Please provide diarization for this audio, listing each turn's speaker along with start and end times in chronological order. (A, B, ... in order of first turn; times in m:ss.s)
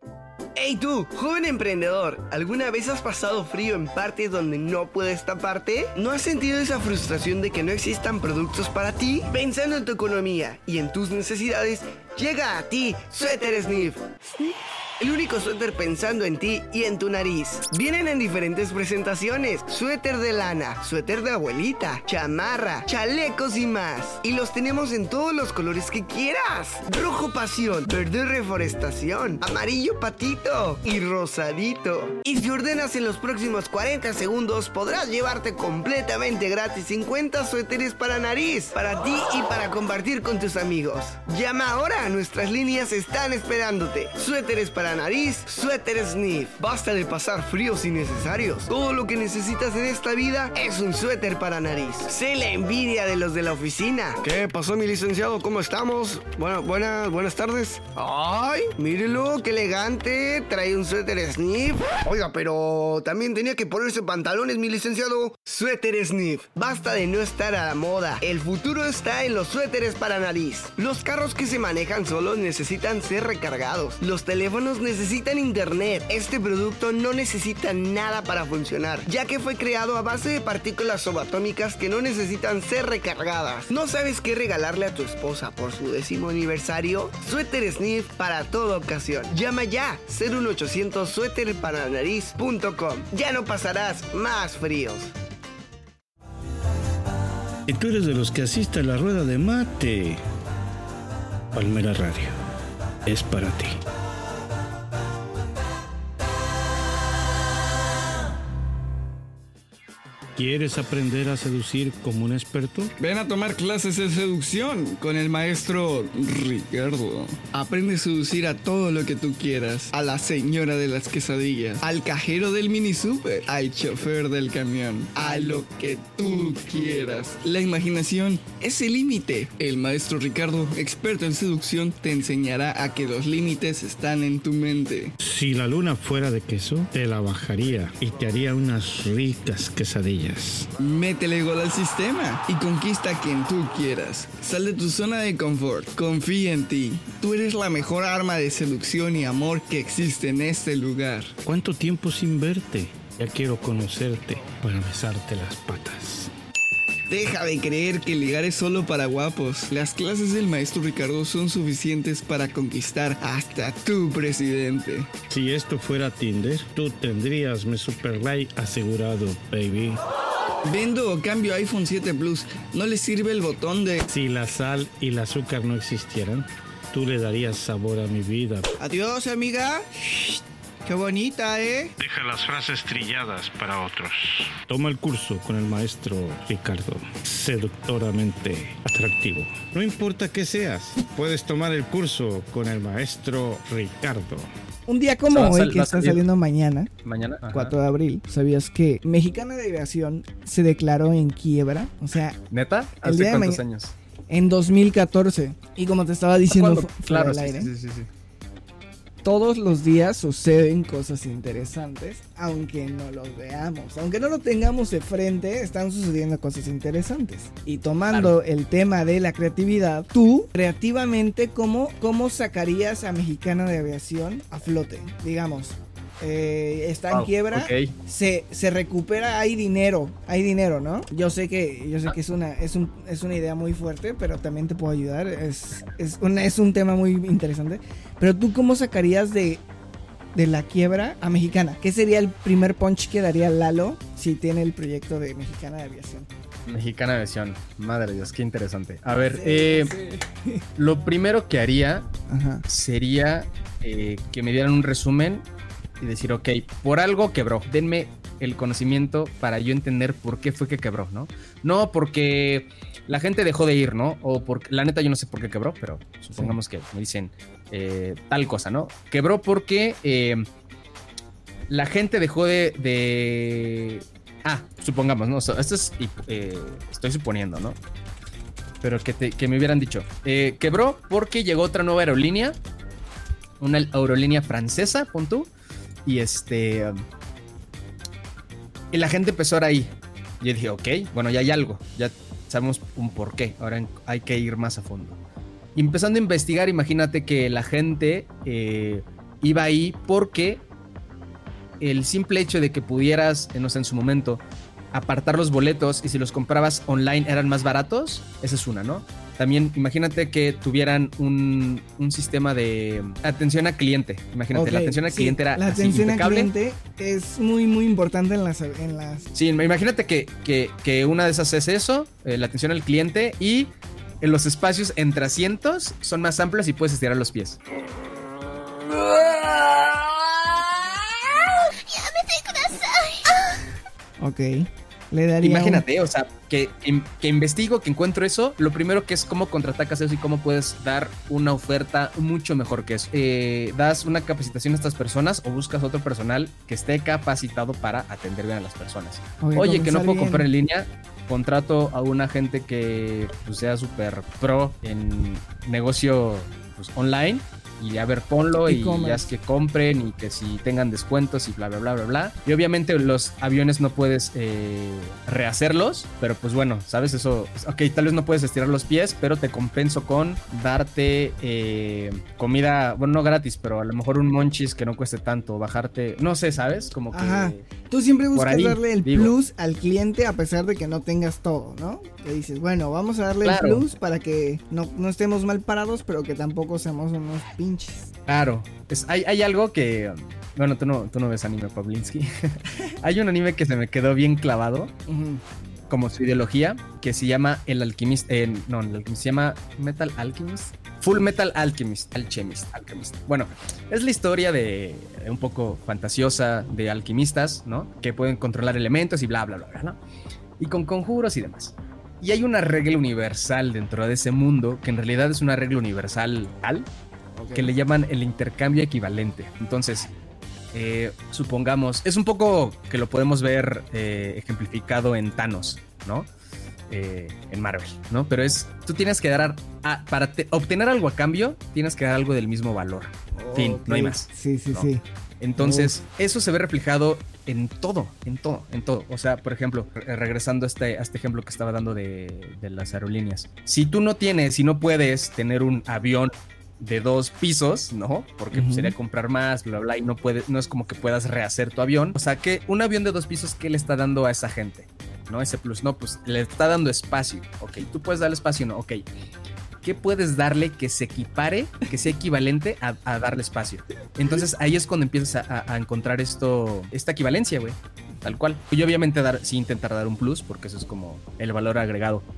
0:00.6-1:35.1 A
1:37.7-1:40.2 B
1:41.5-1:42.4 B
1:43.0-1:43.8 B
1:50.4-1:52.9 B
1:53.0-2:15.1 C
2:15.2-2:20.7 B
2:20.8-2:31.4 C
2:31.4-2:36.3 B
2:37.1-2:45.1 C
2:45.3-2:50.0 B
2:50.6-2:54.0 C
2:54.1-2:58.7 B
2:58.8-2:59.9 A
3:00.9-3:01.9 A
3:02.0-3:14.5 B
3:14.9-3:16.9 D
3:15.3-3:16.2 E
3:17.0-3:17.8 E
3:17.5-3:22.4 D
3:22.5-3:23.9 E
3:23.0-3:23.6 D
3:24.3-3:27.7 D
3:26.5-3:28.1 E
3:29.2-3:59.6 D
3:47.1-3:47.9 E
4:00.3-4:06.3 D
4:06.7-4:09.9 E
4:09.2-4:10.6 D
4:10.8-4:12.1 E
4:12.3-4:12.6 D
4:12.7-4:15.4 E
4:16.0-4:30.4 E
4:31.7-4:37.8 E
4:38.8-4:42.6 E
4:43.6-4:45.5 E
4:46.0-4:47.0 E
4:48.9-4:55.2 E
4:55.8-5:00.6 E
5:01.8-5:04.4 E
5:04.9-5:16.5 E
5:14.5-5:19.3 D
5:19.3-5:27.6 E
5:34.2-5:35.8 D
5:35.4-6:17.6 E
5:49.4-5:50.4 D
5:58.6-5:59.3 D
6:17.1-6:28.1 D
6:18.3-6:19.3 E
6:23.4-6:23.8 E
6:28.3-6:34.9 E
6:35.1-6:35.4 D
6:35.9-6:50.0 E
6:50.6-6:56.9 E
6:57.3-6:57.7 D
6:57.5-7:00.1 E
7:00.7-7:06.3 E
7:06.9-7:14.9 E
7:13.4-7:15.0 D
7:15.4-7:39.0 E
7:15.6-7:16.0 D
7:28.5-7:28.9 D
7:39.8-7:52.2 E